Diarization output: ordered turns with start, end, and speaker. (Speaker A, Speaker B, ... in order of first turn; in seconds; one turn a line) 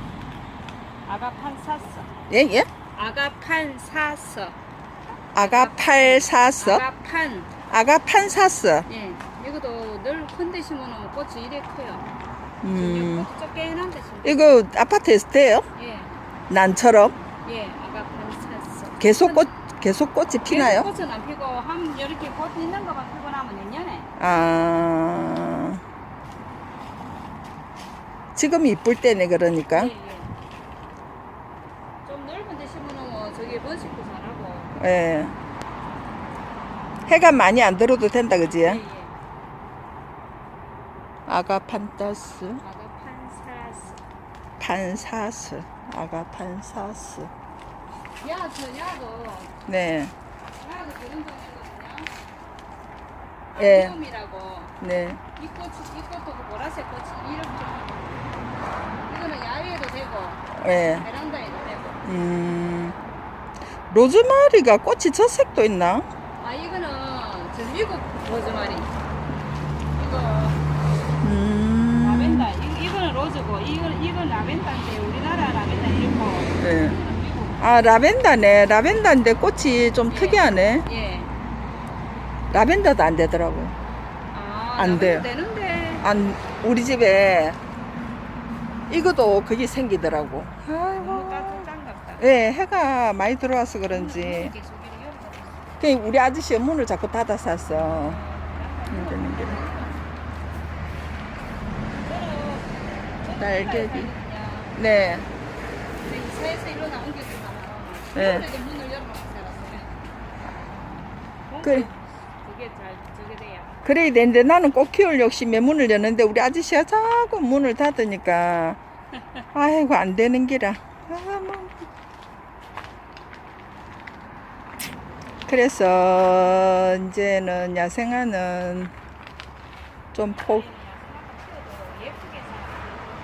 Speaker A: 1.1-2.1
Speaker B: 2.3-2.7
Speaker A: 3.0-4.6
Speaker A: 5.1-7.6
Speaker B: 5.3-6.8
Speaker B: 7.7-8.9
Speaker A: 8.9-12.1
Speaker B: 12.6-13.3
Speaker A: 12.7-14.5
Speaker B: 14.2-15.7
Speaker A: 15.8-16.2
Speaker B: 16.5-17.2
Speaker A: 17.4-19.5
Speaker B: 19.0-20.9
Speaker A: 20.4-24.1
Speaker B: 24.2-25.8
Speaker B: 28.4-29.9
Speaker A: 29.7-30.3
Speaker A: 32.0-34.8
Speaker B: 34.8-35.4
Speaker B: 37.1-38.8
Speaker A: 38.5-39.1
Speaker B: 41.3-42.6
Speaker A: 42.6-44.0
Speaker B: 44.6-47.3
Speaker A: 48.2-49.5
Speaker B: 49.7-50.1
Speaker A: 50.6-52.1
Speaker A: 53.5-58.3
Speaker B: 53.6-54.0
Speaker B: 54.8-55.2
Speaker A: 59.1-62.0
Speaker B: 60.6-61.1
Speaker B: 62.1-63.0
Speaker B: 63.9-66.1
Speaker A: 66.4-68.9
Speaker A: 70.0-70.6
Speaker B: 71.2-72.5
Speaker A: 72.0-77.6
Speaker B: 76.6-77.0
Speaker B: 77.6-80.9
Speaker A: 80.1-81.3
Speaker B: 82.5-83.8
Speaker A: 84.3-86.0
Speaker B: 84.8-85.3
Speaker B: 86.0-87.6
Speaker B: 88.9-91.7
Speaker A: 91.0-92.3
Speaker B: 92.2-94.5
Speaker A: 93.9-95.7
Speaker B: 95.8-98.2
Speaker A: 97.7-100.1
Speaker B: 98.9-99.6
Speaker A: 102.0-104.8
Speaker B: 103.4-104.1
Speaker B: 104.8-105.3
Speaker A: 106.0-109.9
Speaker B: 108.2-108.5
Speaker A: 111.5-113.8
Speaker B: 111.6-111.9
Speaker B: 113.8-118.8
Speaker B: 119.5-121.7
Speaker B: 125.5-128.9
Speaker B: 130.1-130.7
Speaker A: 130.3-133.0